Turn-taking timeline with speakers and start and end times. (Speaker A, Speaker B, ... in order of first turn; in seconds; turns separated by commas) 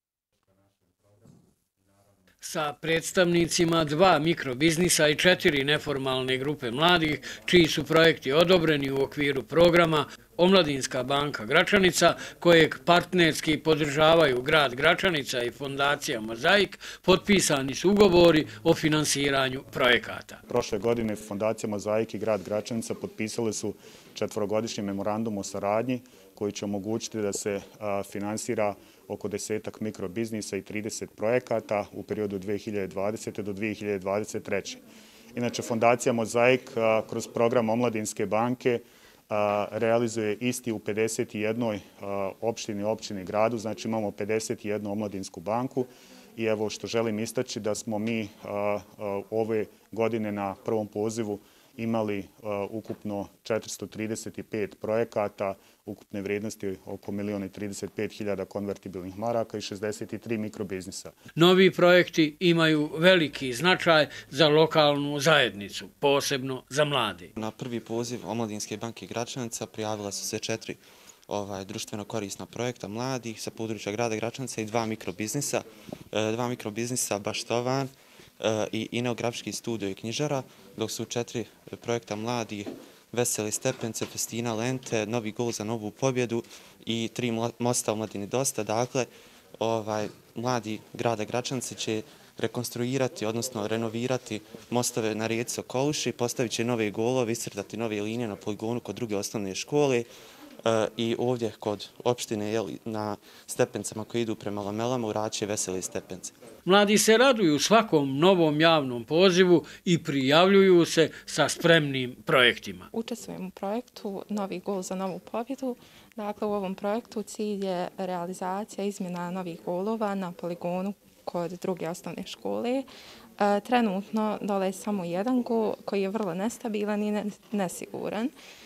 Speaker A: 2.4-20.4, Speaker B: 20.5-34.8, Speaker B: 35.3-61.1, Speaker A: 61.4-67.3, Speaker C: 67.4-100.1, Speaker C: 100.6-106.4, Speaker A: 106.7-112.9, Speaker D: 112.9-122.9, Speaker D: 123.4-128.3